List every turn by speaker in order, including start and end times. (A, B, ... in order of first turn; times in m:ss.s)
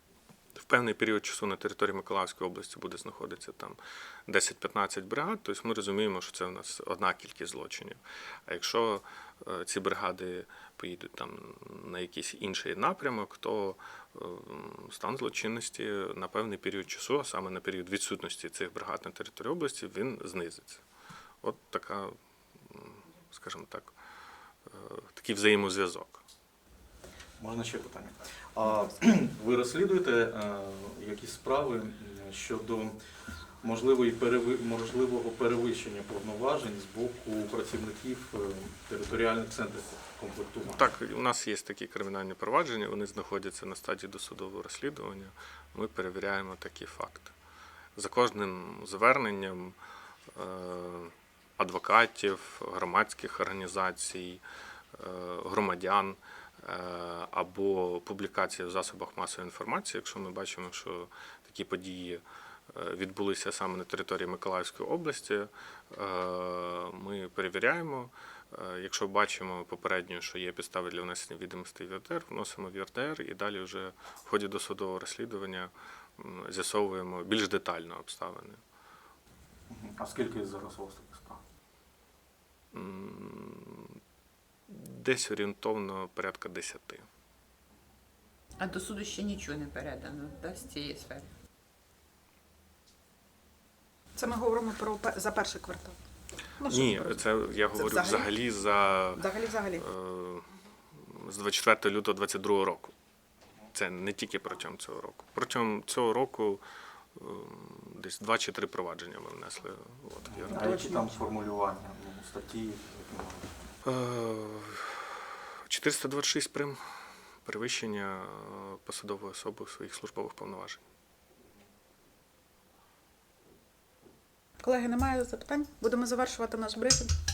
0:00.6-0:20.8 A
0:21.4-0:24.0 A
0:24.7-0:26.2 A
0:27.4-0:33.0 B
0:33.6-0:40.9 B
0:40.7-0:47.3 A
0:48.0-0:49.8 A
0:50.3-0:54.4 A
0:54.9-1:18.6 A
1:19.7-1:21.4 B
1:22.7-1:24.0 A
1:24.7-1:27.1 A
1:28.6-1:31.3 C
1:34.2-1:36.0 D
1:36.6-1:38.3 D
1:36.6-1:42.9 A
1:39.2-1:39.8 D
1:43.7-1:46.6 A
1:47.2-1:51.2 A
1:50.3-1:53.6 B
1:50.6-1:50.9 D
1:53.8-1:56.8 A
1:57.4-2:00.8 A
2:04.6-2:07.1 D